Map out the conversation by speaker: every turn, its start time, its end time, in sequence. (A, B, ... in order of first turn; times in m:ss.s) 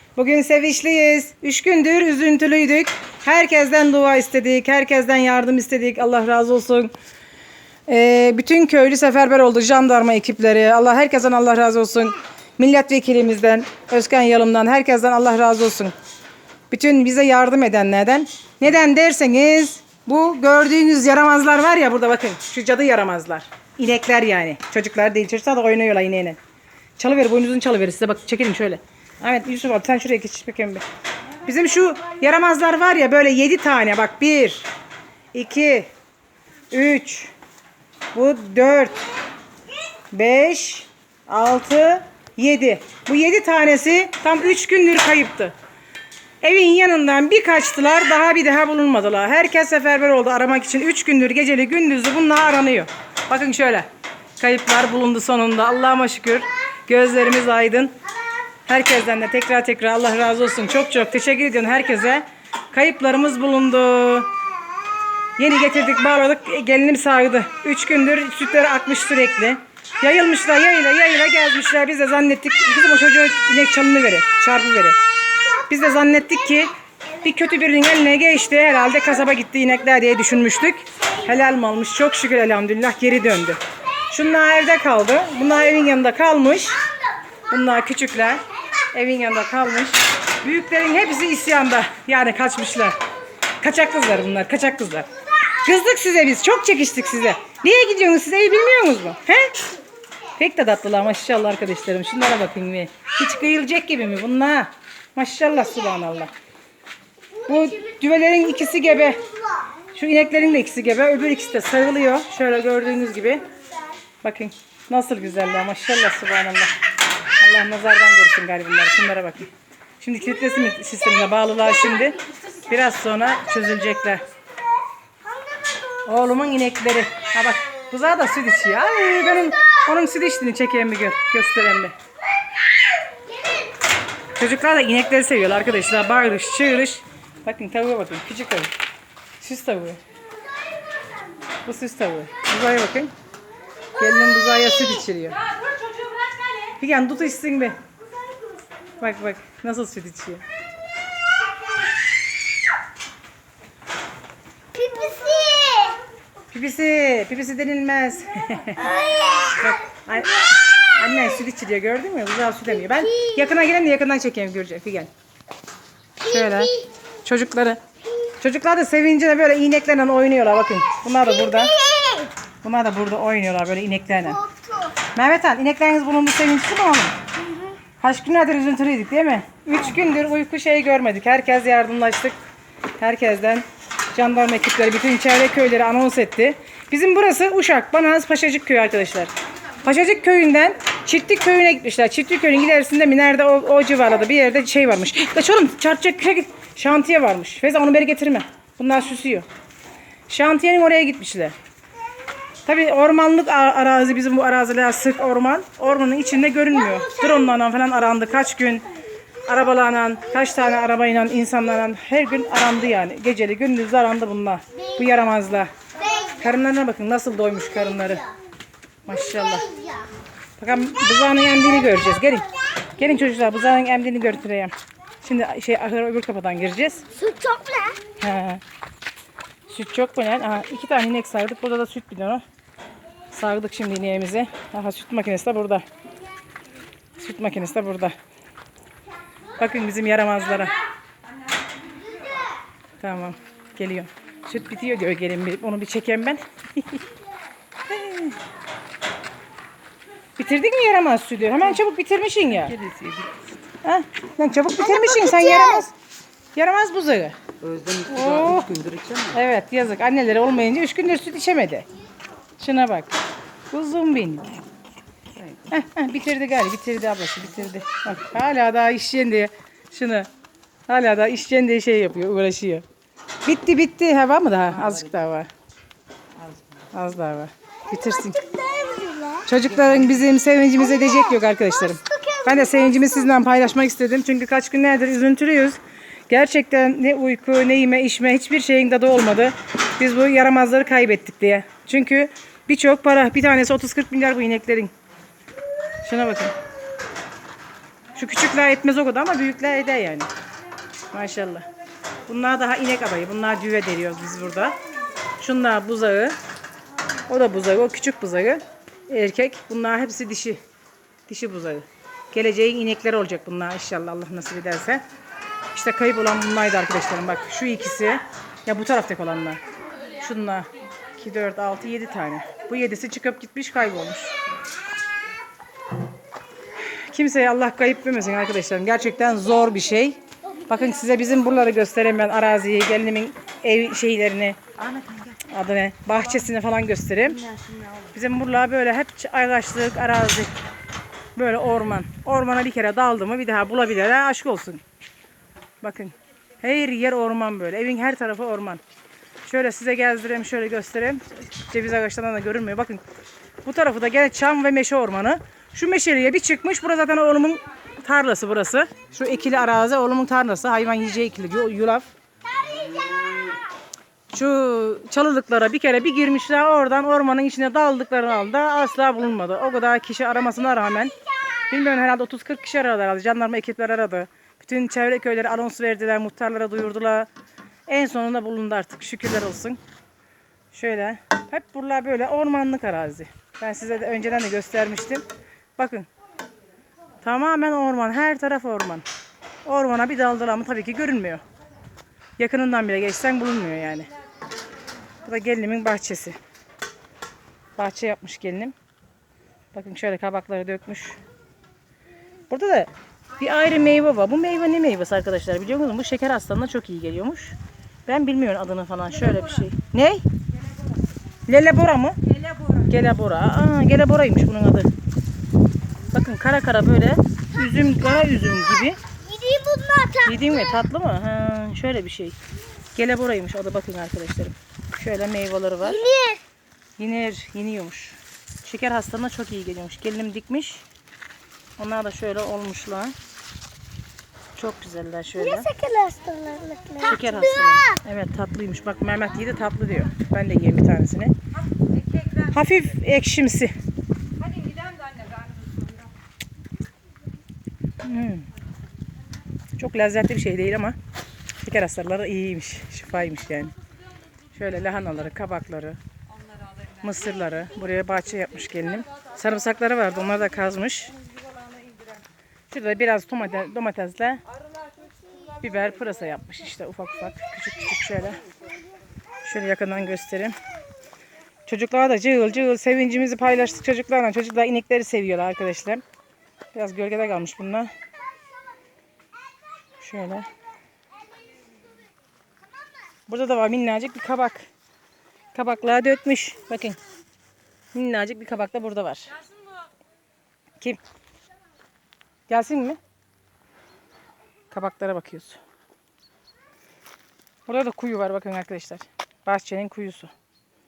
0:00.2-0:06.9 A
0:07.9-0:15.9 A
0:16.7-0:26.4 A
0:27.0-0:30.8 A
0:31.4-0:34.7 A
0:35.3-0:35.9 A
0:36.7-0:37.3 A
0:38.1-0:39.0 A
0:40.1-0:45.5 A
0:46.4-0:53.9 A
0:54.4-0:58.0 A
0:58.7-1:04.3 A
1:05.4-1:15.0 A
1:15.5-1:26.8 A
1:27.5-1:33.0 A
1:33.6-1:35.1 A
1:35.6-1:39.6 A
1:40.4-1:46.3 A
1:47.5-1:49.2 A
1:49.9-1:53.5 A
1:54.2-1:56.7 A
1:57.4-2:04.2 A
2:06.0-2:12.0 A
2:14.4-2:18.7 A
2:19.4-2:20.0 A
2:21.6-2:23.1 A
2:24.0-2:25.4 A
2:26.8-2:27.8 A
2:29.0-2:30.4 A
2:34.7-2:36.0 B
2:36.5-2:45.1 A
2:46.2-2:51.8 A
2:51.9-2:52.3 B
2:52.6-2:54.4 A
2:55.1-2:57.2 A
2:58.0-3:02.4 A
3:03.0-3:19.5 A
3:20.3-3:21.6 A
3:22.6-3:28.9 A
3:29.4-3:38.3 A
3:39.1-3:39.7 A
3:40.6-3:47.0 A
3:47.3-3:48.0 B
3:48.2-3:48.6 A
3:49.7-3:52.4 A
3:53.3-3:55.8 A
3:57.2-3:58.2 A
3:59.6-4:00.8 A
4:03.0-4:07.0 A
4:07.9-4:08.4 A
4:10.4-4:12.9 A
4:12.8-4:13.4 C
4:13.8-4:15.9 A
4:16.6-4:17.4 A
4:17.6-4:19.3 C
4:18.1-4:21.9 A
4:22.6-4:23.1 A
4:23.7-4:24.6 A
4:25.6-4:30.3 A
4:30.9-4:32.8 A
4:33.4-4:35.5 A
4:36.9-4:38.6 A
4:38.5-4:39.4 B
4:39.4-4:54.9 A
4:56.0-4:56.6 A
4:58.2-5:00.3 A
5:01.1-5:01.7 A
5:02.3-5:04.8 A
5:05.4-5:06.4 A
5:07.3-5:10.6 A
5:11.3-5:15.0 A
5:15.7-5:24.4 A
5:27.1-5:34.6 A
5:34.9-5:35.3 C
5:35.4-5:37.5 A
5:38.1-5:40.5 A
5:41.4-5:44.8 A
5:45.8-5:48.8 A
5:49.4-5:53.0 A
5:53.6-6:02.1 A
6:04.3-6:11.1 A
6:11.7-6:17.3 A
6:17.9-6:19.8 A
6:20.7-6:25.2 A
6:25.8-6:26.1 A
6:27.2-6:29.0 A
6:29.6-6:31.4 A
6:32.4-6:34.1 A
6:35.2-6:36.4 A
6:37.8-6:38.8 A
6:39.7-6:41.2 A
6:42.5-6:47.6 A
6:48.1-6:50.2 A
6:51.5-6:54.9 A
6:56.1-6:59.0 A
6:59.3-7:00.3 B
7:00.2-7:02.4 A
7:03.0-7:06.1 A
7:06.0-7:06.4 B
7:07.0-7:10.8 A
7:11.8-7:13.2 A
7:14.6-7:15.8 A
7:15.7-7:17.0 B
7:17.0-7:21.3 A
7:22.3-7:23.7 A
7:24.5-7:25.7 C
7:28.0-7:28.5 A
7:29.8-7:31.0 A
7:31.6-7:33.7 A
7:34.5-7:36.0 A
7:37.0-7:41.2 A
7:42.7-7:44.4 A
7:45.6-7:48.4 A
7:49.4-7:50.6 A
7:51.7-7:56.0 A
7:56.7-7:57.9 A
8:00.0-8:00.5 A
8:03.3-8:04.7 A
8:05.5-8:07.0 A
8:07.9-8:09.4 A
8:12.5-8:13.0 A
8:14.7-8:15.6 A
8:17.7-8:20.3 A